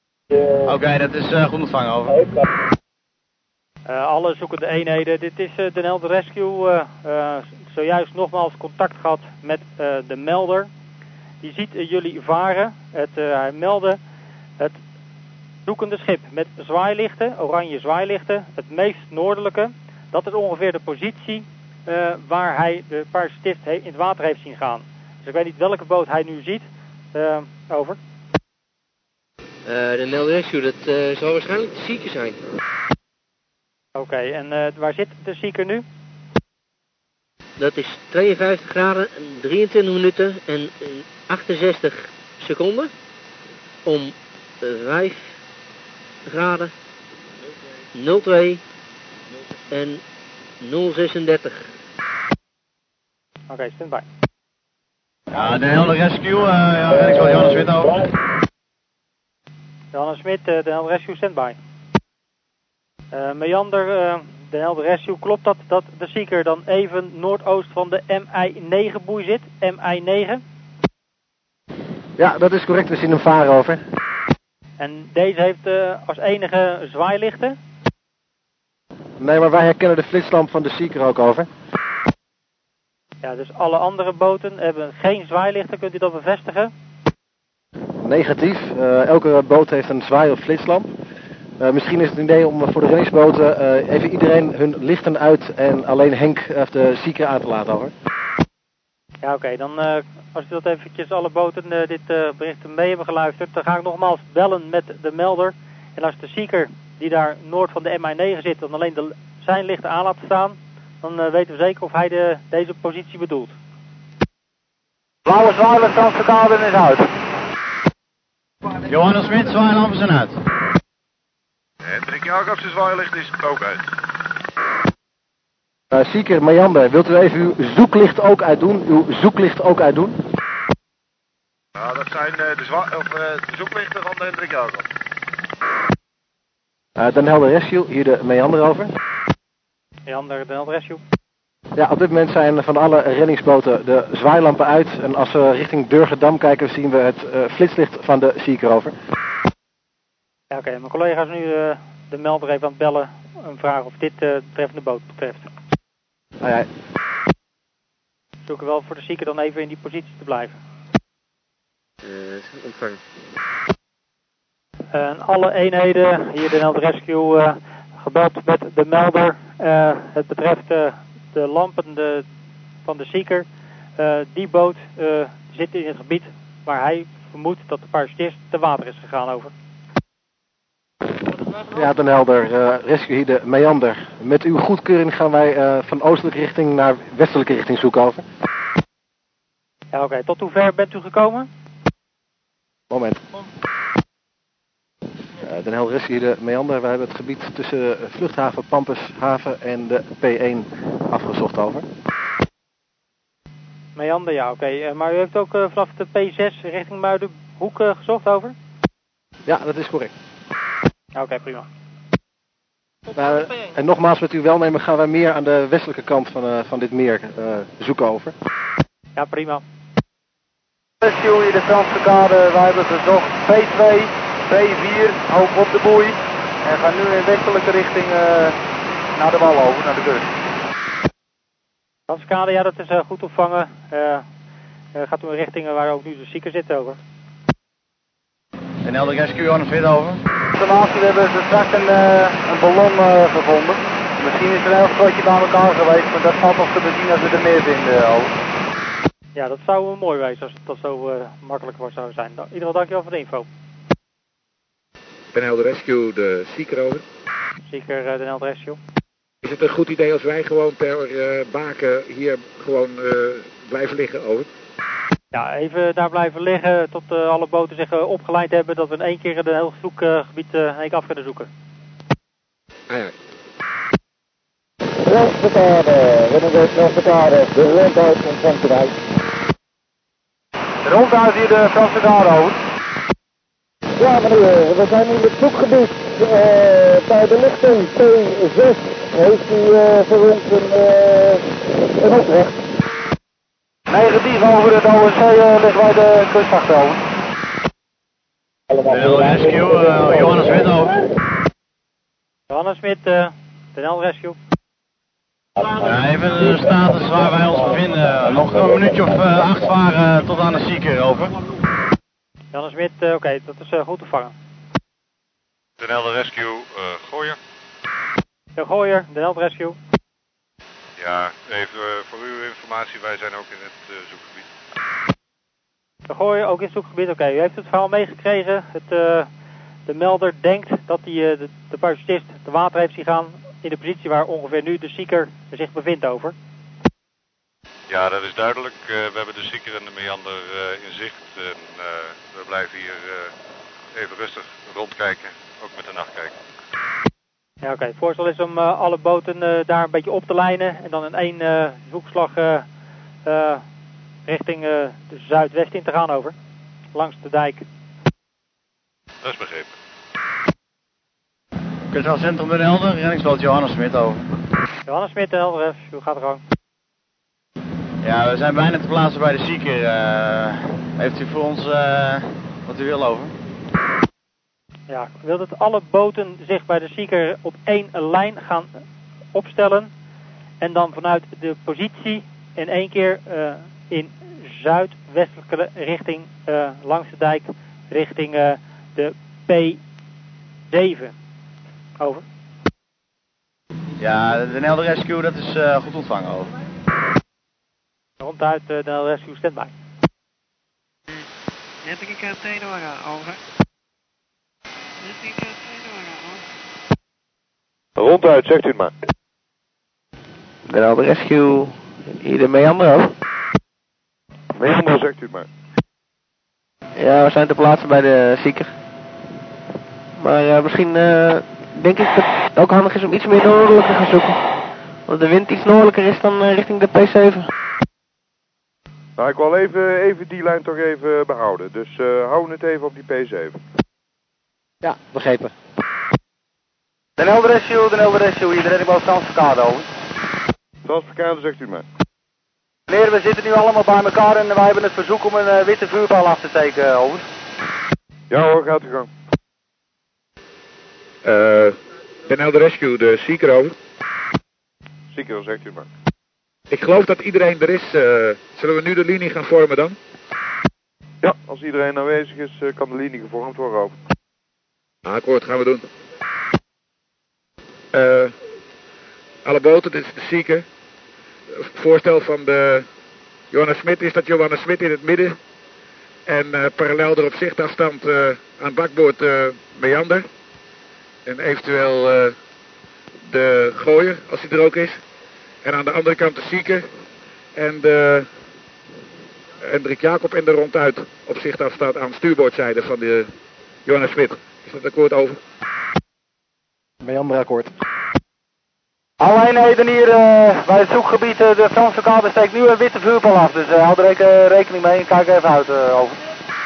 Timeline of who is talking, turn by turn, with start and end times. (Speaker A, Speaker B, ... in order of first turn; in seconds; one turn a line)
Speaker A: 0.6-2.2
Speaker B: 3.9-10.7
Speaker B: 11.4-14.0
Speaker B: 15.7-28.0
Speaker C: 29.6-32.4
Speaker B: 33.9-35.8
Speaker C: 37.6-42.9
Speaker C: 43.8-45.4
Speaker C: 46.2-46.7
Speaker C: 47.9-48.6
Speaker C: 49.7-50.0
Speaker C: 50.6-51.7
Speaker B: 53.5-54.0
Speaker A: 55.3-58.1
Speaker B: 59.9-61.6
Speaker B: 63.1-70.4
Speaker D: 72.2-73.8
Speaker B: 74.8-77.6
Speaker D: 79.2-81.5
Speaker B: 83.2-86.7
Speaker D: 88.0-90.9
Speaker D: 91.6-97.9
Speaker B: 99.2-113.5
Speaker E: 115.2-117.0
Speaker A: 118.8-120.4
Speaker F: 121.8-123.8
Speaker D: 125.9-130.2
Speaker F: 131.8-134.8
Speaker D: 136.9-138.9
Speaker B: 140.1-141.0
Speaker D: 141.8-148.9
Speaker B: 150.5-155.5
Speaker D: 156.4-156.7
Speaker B: 158.4-160.6
Speaker C: 162.0-163.0
Speaker B: 164.9-172.2
Speaker B: 172.8-173.5
Speaker B: 174.0-179.5
Speaker D: 181.7-188.2
Speaker B: 189.9-191.5
Speaker D: 192.9-193.2
Speaker D: 195.4-201.8
Speaker B: 203.9-208.6
Speaker D: 209.4-210.1
Speaker B: 211.1-211.7
Speaker D: 213.1-218.3
Speaker B: 219.2-219.6
Speaker E: 221.0-228.6
Speaker E: 229.2-230.2
Speaker B: 232.1-234.2
Speaker B: 234.9-237.0
Speaker A: 238.8-240.2
Speaker E: 240.5-248.3
Speaker B: 249.3-253.5
Speaker G: 255.3-257.0
Speaker B: 257.7-258.8
Speaker G: 259.4-264.5
Speaker B: 265.3-271.5
Speaker G: 272.9-273.1
Speaker H: 275.1-278.9
Speaker E: 280.8-282.6
Speaker H: 284.0-291.4
Speaker H: 292.0-292.5
Speaker E: 293.9-297.0
Speaker A: 298.9-301.0
Speaker B: 302.5-304.4
Speaker A: 305.7-311.4
Speaker B: 312.5-314.3
Speaker F: 315.8-317.4
Speaker B: 318.6-319.8
Speaker F: 321.0-324.4
Speaker B: 326.1-329.3
Speaker B: 329.9-336.3
Speaker F: 337.9-343.3
Speaker F: 343.9-346.3
Speaker B: 347.6-352.7
Speaker B: 353.2-353.6
Speaker B: 354.2-356.3
Speaker B: 356.9-357.6
Speaker F: 359.2-359.7
Speaker A: 361.9-364.3
Speaker B: 364.9-366.4
Speaker A: 368.0-373.3
Speaker B: 374.9-378.7
Speaker B: 379.3-379.9
Speaker B: 380.6-389.8
Speaker B: 390.7-391.1
Speaker B: 392.0-392.2
Speaker A: 394.0-396.5
Speaker B: 398.2-399.7
Speaker I: 401.8-403.4
Speaker I: 405.0-406.4
Speaker J: 408.0-408.9
Speaker K: 410.7-413.1
Speaker J: 414.5-415.5
Speaker K: 417.0-418.7
Speaker K: 420.2-424.4
Speaker K: 425.1-427.5
Speaker J: 429.2-433.6
Speaker D: 434.8-435.5
Speaker E: 437.2-439.9
Speaker J: 440.8-441.8
Speaker E: 442.9-447.2
Speaker J: 448.3-449.1
Speaker G: 451.2-453.7
Speaker J: 455.1-455.9
Speaker G: 456.7-460.0
Speaker J: 461.2-463.9
Speaker G: 465.0-465.8
Speaker G: 467.9-468.3
Speaker G: 469.4-470.6
Speaker G: 471.6-472.9
Speaker G: 473.5-475.4
Speaker G: 476.3-480.2
Speaker G: 481.2-482.3
Speaker G: 483.3-485.0
Speaker G: 485.6-486.9
Speaker G: 487.6-488.3
Speaker G: 489.6-493.3
Speaker G: 493.9-495.4
Speaker D: 497.0-497.7
Speaker E: 499.2-506.2